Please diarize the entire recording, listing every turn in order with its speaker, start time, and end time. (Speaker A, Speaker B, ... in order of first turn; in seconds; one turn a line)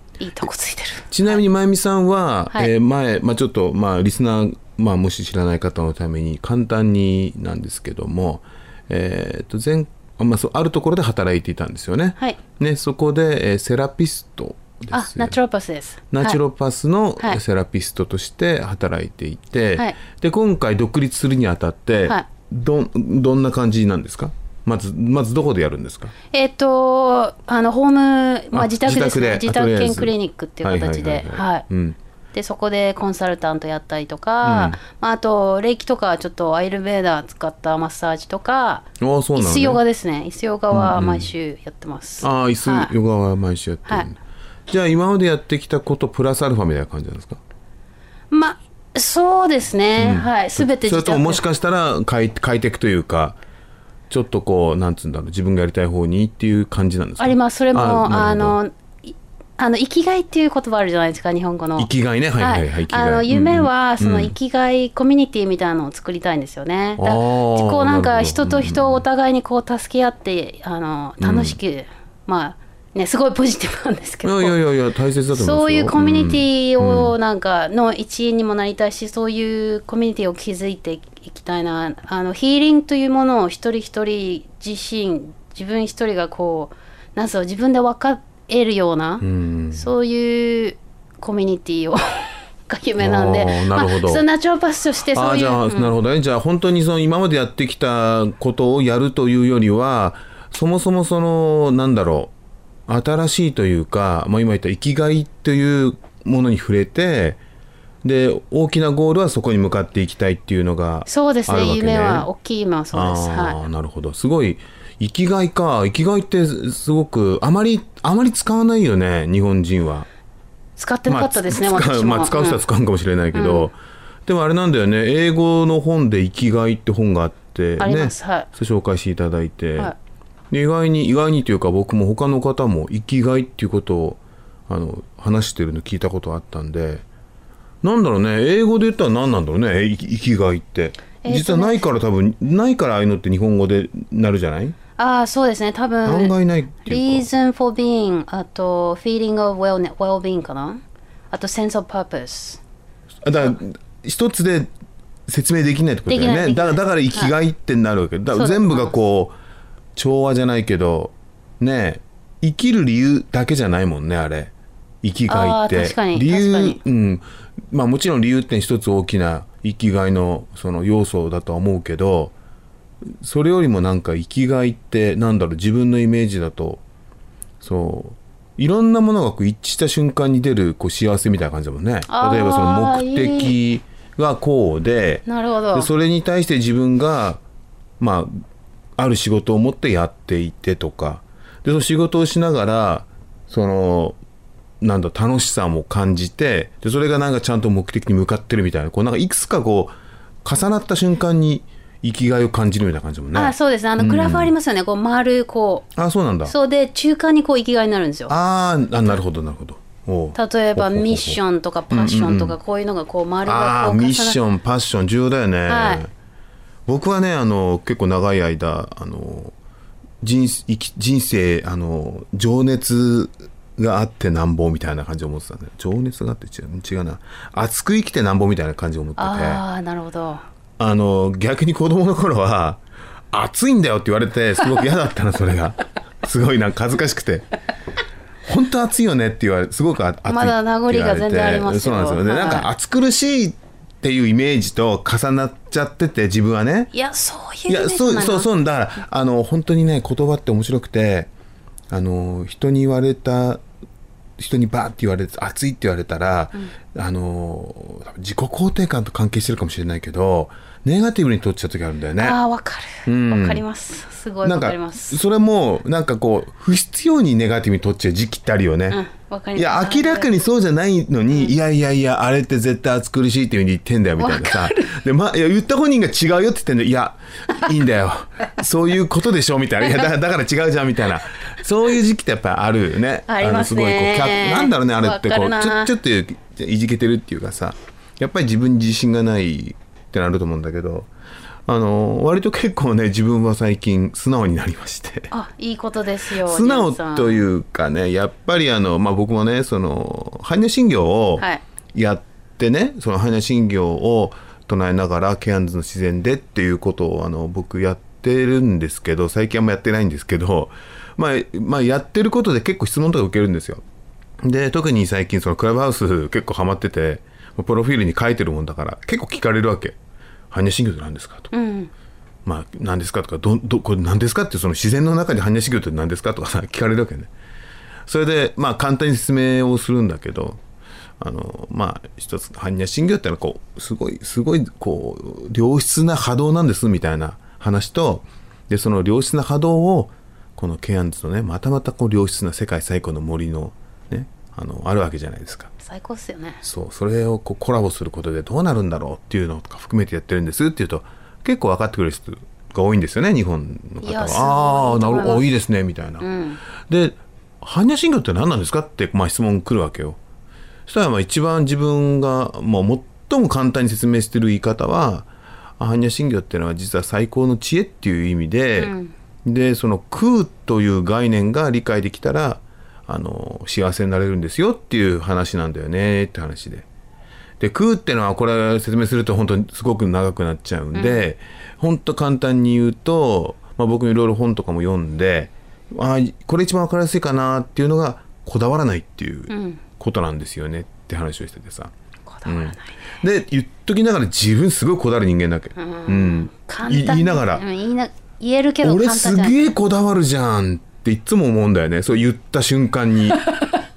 Speaker A: 0.2-1.4
Speaker B: 1.1-15.4
Speaker A: 14.9-16.4
Speaker B: 16.1-26.1
Speaker A: 26.3-31.6
Speaker B: 28.5-32.0
Speaker A: 32.3-42.9
Speaker B: 34.4-34.8
Speaker B: 39.0-39.8
Speaker B: 40.7-41.3
Speaker B: 42.2-47.4
Speaker A: 48.3-51.4
Speaker B: 50.0-53.4
Speaker B: 54.1-58.6
Speaker A: 57.2-74.6
Speaker B: 61.8-64.3
Speaker B: 67.0-69.0
Speaker B: 71.2-71.6
Speaker B: 74.2-77.1
Speaker A: 75.3-95.9
Speaker B: 89.2-89.9
Speaker B: 93.0-94.2
Speaker B: 95.1-102.3
Speaker B: 102.9-107.4
Speaker B: 108.0-112.3
Speaker A: 111.1-113.6
Speaker B: 112.9-120.1
Speaker A: 120.8-122.6
Speaker B: 121.1-129.9
Speaker A: 123.3-123.7
Speaker A: 127.8-128.5
Speaker B: 130.5-137.0
Speaker B: 137.8-144.8
Speaker A: 141.2-141.8
Speaker A: 145.0-150.8
Speaker B: 146.1-147.3
Speaker A: 151.3-152.6
Speaker B: 153.2-154.7
Speaker B: 155.3-159.3
Speaker A: 156.1-157.3
Speaker A: 158.3-159.0
Speaker B: 160.0-164.5
Speaker B: 165.0-172.3
Speaker A: 165.3-166.8
Speaker B: 173.1-176.8
Speaker B: 177.6-187.4
Speaker A: 182.1-183.6
Speaker A: 185.3-185.9
Speaker B: 188.0-188.4
Speaker B: 189.0-194.2
Speaker B: 194.8-204.5
Speaker A: 203.3-205.9
Speaker B: 206.0-206.5
Speaker A: 206.4-208.3
Speaker B: 208.3-211.4
Speaker A: 210.4-214.4
Speaker B: 211.9-212.6
Speaker B: 213.4-216.1
Speaker A: 215.7-216.0
Speaker B: 216.9-219.5
Speaker B: 220.2-229.6
Speaker A: 229.2-230.4
Speaker B: 230.8-232.8
Speaker B: 233.3-237.5
Speaker B: 238.5-246.9
Speaker A: 240.3-242.7
Speaker A: 246.9-248.5
Speaker B: 247.7-251.3
Speaker B: 251.9-253.6
Speaker B: 254.4-262.4
Speaker A: 262.2-265.2
Speaker B: 263.1-263.6
Speaker B: 264.4-269.0
Speaker A: 268.9-270.3
Speaker B: 269.6-291.1
Speaker A: 274.2-275.0
Speaker A: 283.3-285.9
Speaker B: 291.7-295.3
Speaker A: 295.3-297.5
Speaker B: 296.4-313.8
Speaker B: 314.4-320.0
Speaker B: 320.5-321.5
Speaker A: 321.5-321.9
Speaker B: 322.4-327.3
Speaker B: 328.1-330.6
Speaker B: 331.2-345.7
Speaker A: 345.8-346.6
Speaker B: 346.6-356.3
Speaker A: 354.0-355.5
Speaker A: 356.2-356.6
Speaker B: 356.9-360.2
Speaker B: 360.9-368.9
Speaker A: 368.8-369.1
Speaker B: 369.4-376.9
Speaker B: 377.6-391.9
Speaker A: 380.9-381.2
Speaker A: 389.5-389.8
Speaker A: 392.3-392.9
Speaker B: 392.4-397.6
Speaker A: 395.8-399.7
Speaker B: 398.8-403.4